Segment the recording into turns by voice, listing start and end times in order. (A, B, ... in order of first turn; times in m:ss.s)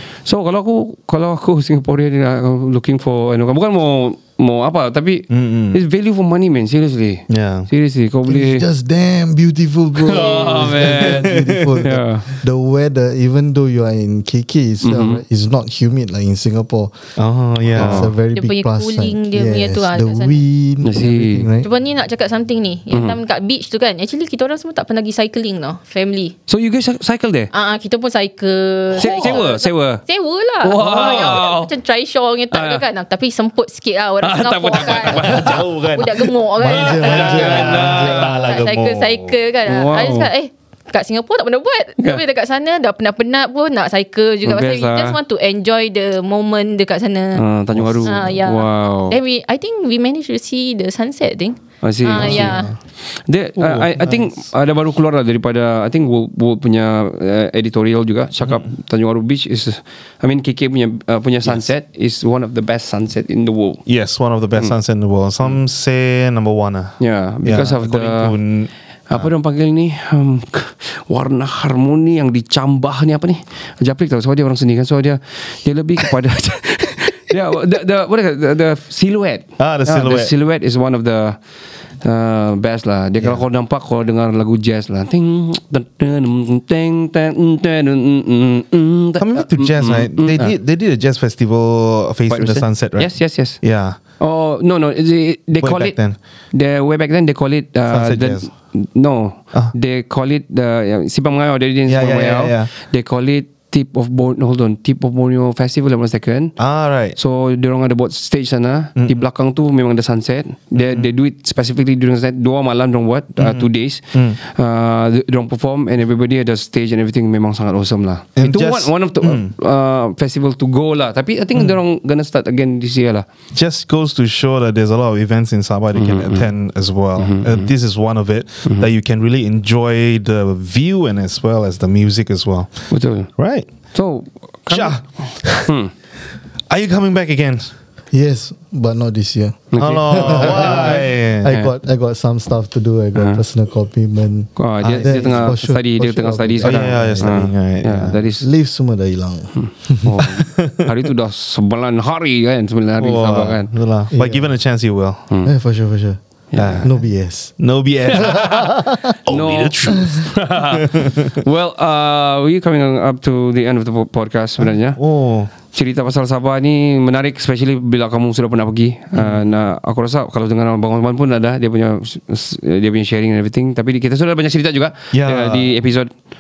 0:00.2-0:08.6 A
0:05.3-0:05.8 B
0:07.3-0:07.7 B
0:08.3-0:17.1 C
0:10.1-0:12.2 A
0:10.9-0:11.8 B
0:14.8-0:15.2 A
0:17.2-0:18.1 B
0:17.7-0:21.7 C
0:17.8-0:18.1 A
0:18.3-0:20.4 D
0:20.8-0:21.5 A
0:21.6-0:26.4 D
0:22.9-0:23.2 A
0:26.5-0:27.5 A
0:27.5-0:47.4 D
0:29.0-0:30.0 A
0:29.0-0:29.4 B
0:30.6-0:31.7 A
0:32.5-0:32.8 A
0:34.2-0:35.6 A
0:34.8-0:39.4 B
0:36.6-0:38.5 C
0:36.8-0:38.4 A
0:39.7-0:40.3 A
0:44.4-0:45.2 A
0:47.4-0:49.2 A
0:47.7-0:48.4 B
0:48.0-0:52.7 D
0:51.8-0:52.7 A
0:52.1-0:52.8 B
0:53.2-1:03.8 A
0:53.6-0:54.4 B
1:03.9-1:09.3 B
1:07.0-1:08.4 A
1:09.1-1:21.4 A
1:19.6-1:20.3 B
1:22.0-1:30.5 A
1:29.2-1:34.0 B
1:32.3-1:33.6 A
1:34.2-1:36.0 A
1:35.6-1:36.2 B
1:36.5-1:46.6 A
1:37.9-1:38.5 B
1:41.9-1:42.7 B
1:46.6-1:47.2 B
1:47.2-2:03.3 A
1:49.0-1:49.2 B
1:50.8-1:51.1 B
1:53.4-1:54.4 B
1:58.4-1:59.5 B
2:03.5-2:13.7 B
2:06.0-2:06.5 A
2:07.2-2:07.7 A
2:12.9-2:15.9 A
2:14.7-2:15.7 B
2:16.7-2:17.7 B
2:18.1-2:27.5 C
2:19.7-2:21.7 A
2:19.8-2:21.5 B
2:23.2-2:23.4 A
2:24.6-2:28.4 A
2:24.8-2:25.5 B
2:26.6-2:28.2 B
2:28.4-2:30.3 C
2:29.6-2:33.7 A
2:30.4-2:30.9 B
2:33.0-2:35.2 B
2:34.1-2:34.5 C
2:35.4-2:36.2 C
2:36.5-2:36.8 A
2:36.6-2:36.9 B
2:36.8-2:37.6 C
2:37.6-2:38.7 B
2:38.2-2:38.7 A
2:38.4-2:39.0 C
2:39.3-2:41.4 B
2:39.3-2:40.8 A
2:41.4-2:45.0 A
2:44.6-2:45.5 B
2:45.7-2:56.1 A
2:49.2-2:49.5 B
2:55.1-2:55.7 B